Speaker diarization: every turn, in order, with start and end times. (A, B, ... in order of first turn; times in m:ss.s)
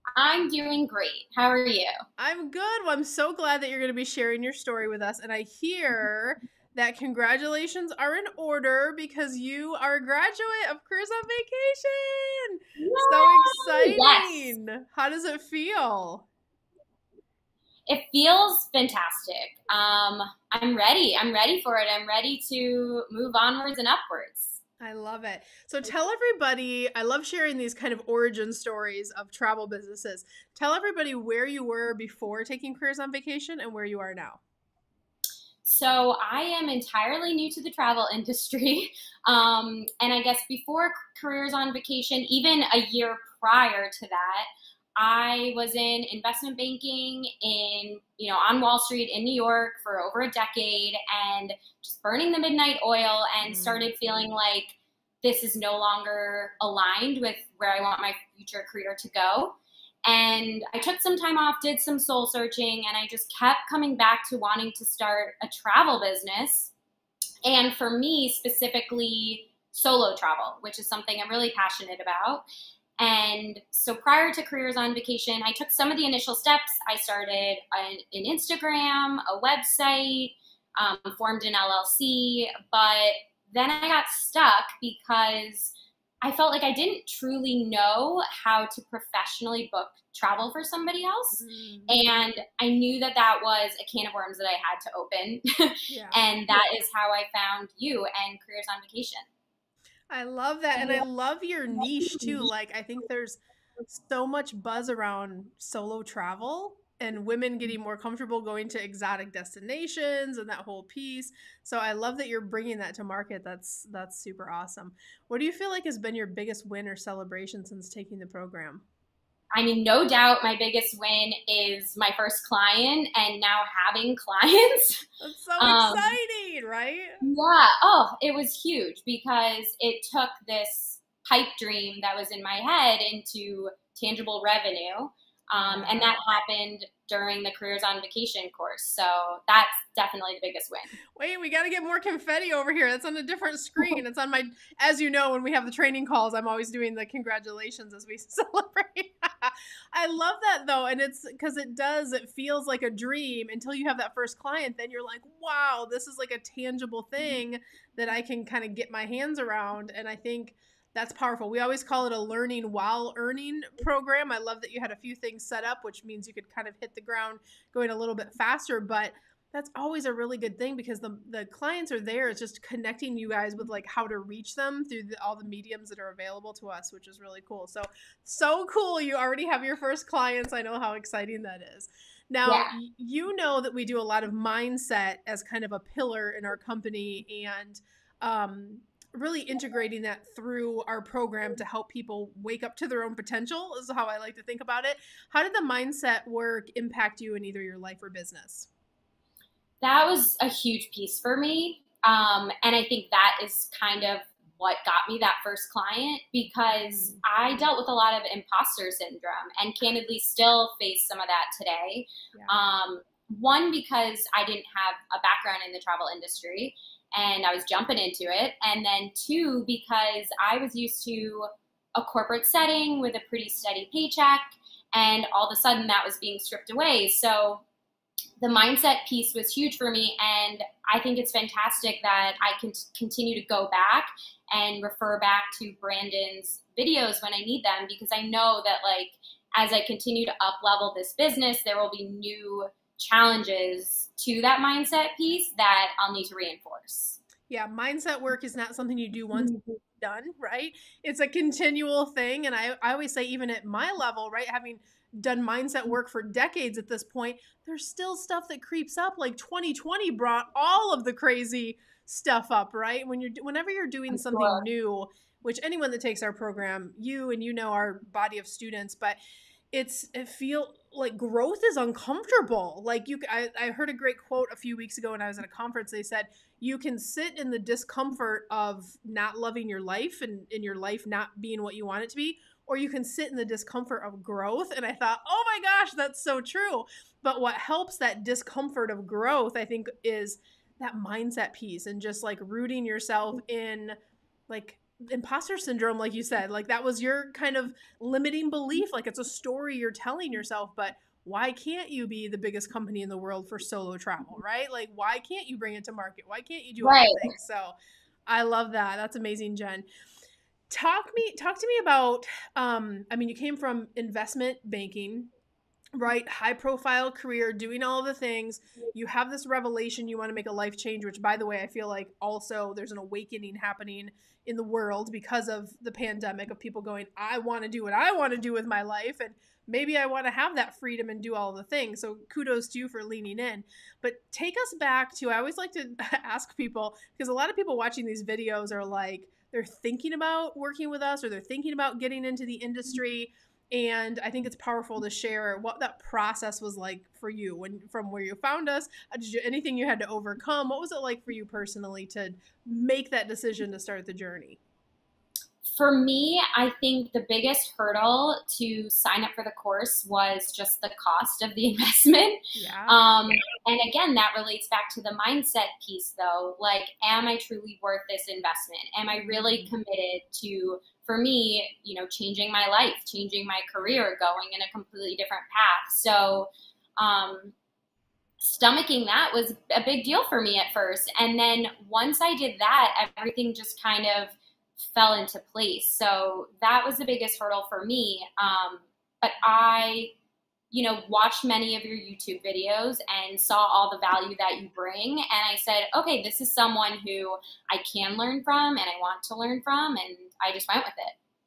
0:00.2-0:01.9 A
0:02.2-0:16.2 B
0:12.8-0:14.5 A
0:17.9-0:24.6 A
0:24.8-0:34.4 B
0:35.6-1:06.7 A
0:53.4-0:54.0 B
1:07.4-1:12.4 A
1:13.0-1:39.2 A
1:31.4-1:32.0 B
1:35.9-1:36.2 B
1:40.1-1:58.8 B
1:59.5-2:05.0 A
2:05.2-2:07.2 B
2:05.6-2:06.1 A
2:07.2-2:21.0 A
2:15.6-2:16.2 B
2:21.2-3:18.7 B
3:02.4-3:02.7 A
3:19.8-3:47.6 A
3:26.8-3:27.2 B
3:48.4-4:07.2 A
4:07.5-4:29.2 B
4:09.3-4:09.8 A
4:24.1-4:24.6 A
4:29.7-4:54.0 B
4:54.5-5:07.8 B
5:06.8-5:07.3 A
5:08.3-5:09.8 B
5:10.7-5:15.3 B
5:15.9-5:54.6 B
5:55.7-6:17.5 A
6:02.6-6:03.0 B
6:09.1-6:09.7 B
6:18.4-6:24.4 A
6:24.9-6:30.1 A
6:30.7-6:41.2 A